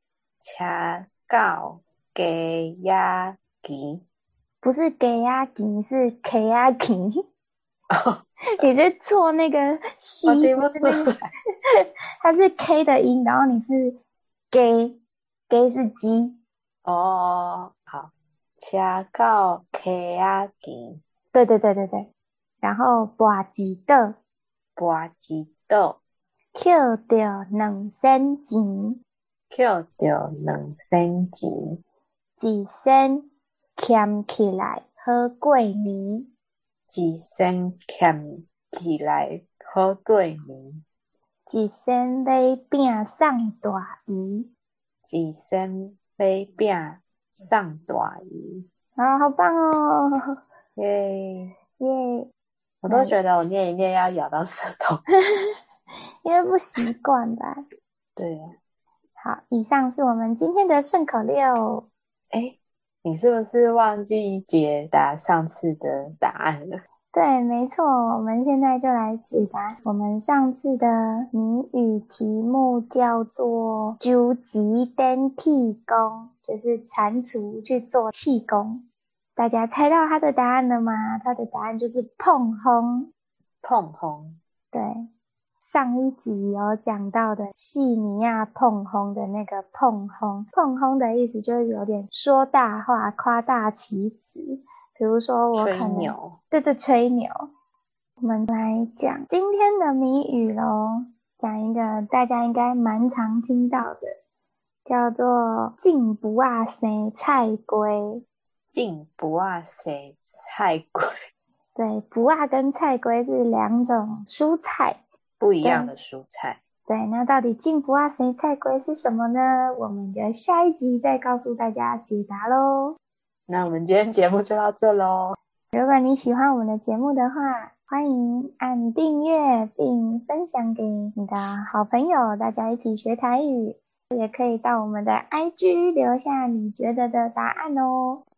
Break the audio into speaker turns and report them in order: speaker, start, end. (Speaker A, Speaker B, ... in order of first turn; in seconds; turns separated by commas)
Speaker A: 0.4-4.0, Speaker B: 4.6-7.2, Speaker A: 7.9-8.2, Speaker B: 8.6-11.1, Speaker A: 10.2-11.3, Speaker B: 12.2-14.0, Speaker B: 14.5-15.0, Speaker B: 15.5-16.4, Speaker A: 16.8-21.0, Speaker B: 21.3-22.1, Speaker B: 22.6-24.2, Speaker A: 24.8-26.0, Speaker B: 26.5-29.0, Speaker A: 29.5-31.8, Speaker B: 32.4-36.3, Speaker A: 36.9-40.8, Speaker B: 41.5-44.5, Speaker A: 45.0-48.6, Speaker B: 49.0-50.1, Speaker A: 50.8-51.5, Speaker B: 51.8-52.3, Speaker A: 52.8-55.0, Speaker B: 52.9-53.1, Speaker B: 55.1-55.5, Speaker B: 56.2-57.6, Speaker A: 58.2-58.5, Speaker B: 59.2-61.9, Speaker A: 62.3-66.8, Speaker B: 67.1-78.8, Speaker B: 79.4-83.1, Speaker A: 83.6-84.4, Speaker B: 84.7-85.0, Speaker B: 85.6-97.3, Speaker A: 95.5-96.4, Speaker B: 98.2-104.2, Speaker B: 104.8-108.2, Speaker A: 108.7-111.1, Speaker B: 111.8-115.0, Speaker A: 115.4-116.6, Speaker B: 115.6-115.9, Speaker B: 116.9-123.0, Speaker A: 123.5-125.4, Speaker B: 125.7-138.2